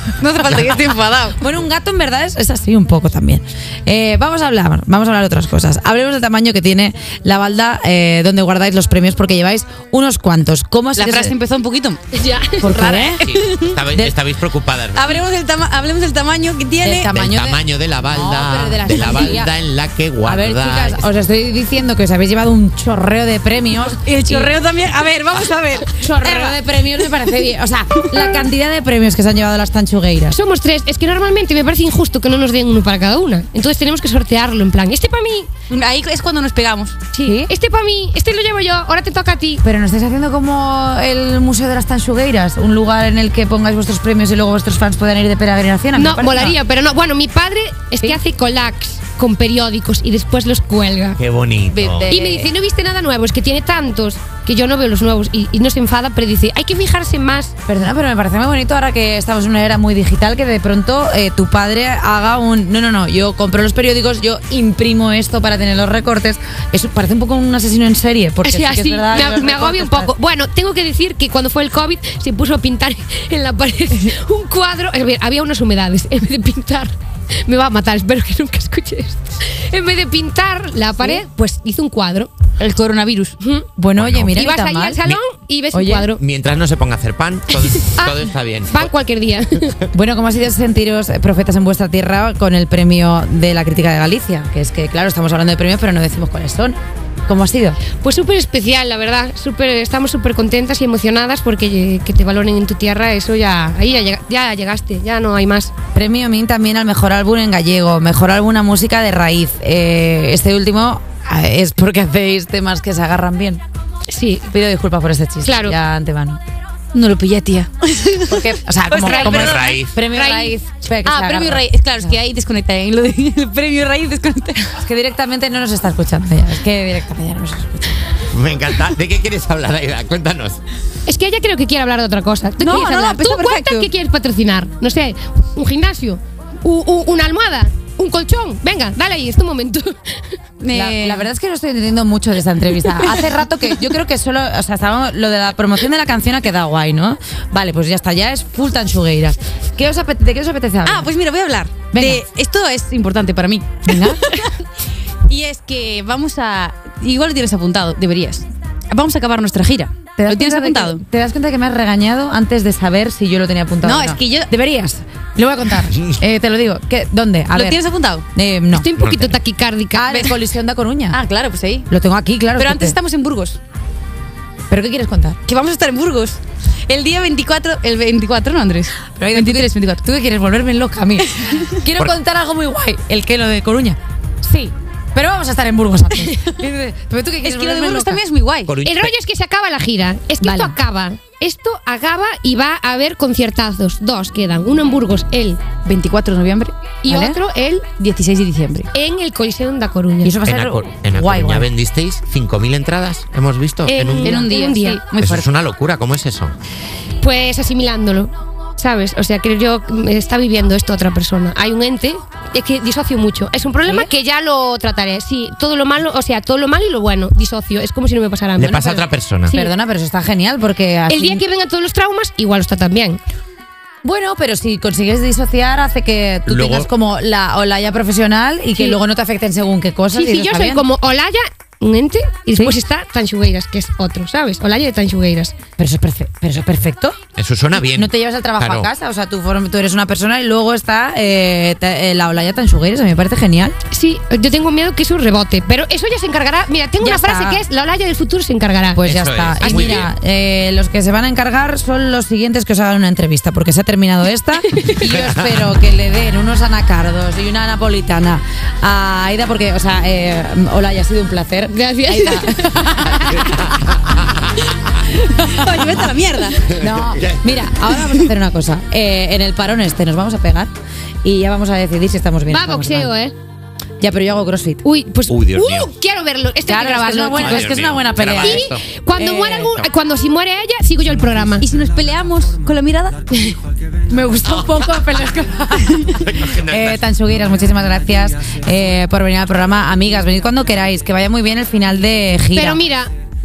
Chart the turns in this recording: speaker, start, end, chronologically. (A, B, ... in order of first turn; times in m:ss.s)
0:00.2-0:01.4 A
0:01.4-0:11.3 B
0:11.0-0:12.0 A
0:12.1-0:12.8 C
0:12.6-0:14.0 A
0:12.6-0:13.2 B
0:13.2-0:15.2 D
0:15.0-0:17.1 A
0:16.8-0:19.5 B
0:17.1-0:21.0 D
0:20.2-0:24.5 B
0:23.9-0:26.6 A
0:26.0-0:30.4 B
0:30.3-0:35.5 C
0:35.7-0:37.0 A
0:37.1-0:39.6 C
0:37.2-0:37.5 B
0:39.6-0:46.6 B
0:45.9-0:51.2 C
0:51.2-0:52.1 D
0:51.7-0:52.5 B
0:52.1-0:57.5 C
0:57.7-1:10.1 B
1:08.4-1:16.9 C
1:17.5-1:22.3 C
1:22.6-1:23.4 A
1:23.4-1:23.7 C
1:23.8-1:25.0 B
1:24.0-1:24.4 D
1:24.3-1:26.2 C
1:25.7-1:26.1 B
1:26.2-1:28.9 D
1:27.6-1:29.8 C
1:29.9-1:37.8 B
1:38.0-1:45.7 C
1:45.9-1:53.6 B
1:54.1-1:54.5 C
1:54.5-1:56.4 B
1:55.4-1:55.8 C
1:56.9-1:59.8 A
1:58.2-2:02.1 B
1:59.0-2:00.6 C
1:59.3-1:59.9 D
2:01.0-2:04.8 A
2:04.8-2:08.0 B
2:08.3-2:10.6 D
2:11.1-2:20.4 C
2:12.6-2:13.9 A
2:20.6-2:21.3 A
2:20.7-2:31.1 B
2:23.0-2:23.4 A
2:30.8-2:34.6 A
2:31.9-2:32.2 B
2:33.8-2:34.2 B
2:35.3-2:41.0 A
2:40.2-2:47.8 B
2:43.8-2:44.5 A
2:47.5-2:48.3 A
2:48.3-2:48.9 B
2:48.7-2:50.3 C
2:49.0-2:49.4 D
2:50.0-2:51.2 B
2:51.1-2:51.9 A
2:51.9-2:53.0 B
2:52.6-2:53.6 A
2:54.7-2:55.4 B
2:55.4-3:00.0 A
2:59.2-3:08.2 B
3:07.4-3:08.7 A
3:08.7-3:09.1 D
3:08.8-3:15.6 C
3:10.4-3:10.8 A
3:15.8-3:17.4 A
3:17.0-3:17.9 C
3:17.9-3:18.9 A
3:18.9-3:20.4 C
3:20.2-3:21.7 B
3:20.4-3:24.5 D
3:23.9-3:25.0 C
3:24.2-3:25.5 A
3:25.2-3:26.6 D
3:27.2-3:39.7 C
3:38.6-3:39.5 D
3:39.5-3:41.4 B
3:41.1-3:43.2 C
3:44.0-3:50.8 B
3:46.5-3:46.9 D
3:50.1-3:55.5 C
3:55.8-3:57.2 B
3:57.4-3:58.9 D
3:58.0-4:03.8 B
4:03.9-4:09.0 C
4:07.0-4:07.6 B
4:09.0-4:23.5 B
4:09.0-4:10.1 D
4:09.6-4:10.1 C
4:15.1-4:15.5 D
4:21.9-4:23.4 A
4:23.5-4:24.2 D
4:25.2-4:26.7 A
4:26.7-4:30.7 B
4:26.8-4:28.0 D
4:31.2-4:33.1 B
4:32.5-4:33.3 C
4:34.0-4:34.8 B
4:34.8-4:37.8 C
4:35.3-4:35.9 D
4:36.7-4:39.8 B
4:37.4-4:38.8 D
4:38.4-4:41.7 C
4:41.6-4:43.2 A
4:44.1-4:52.8 B
4:46.2-4:47.0 D
4:52.5-4:53.1 C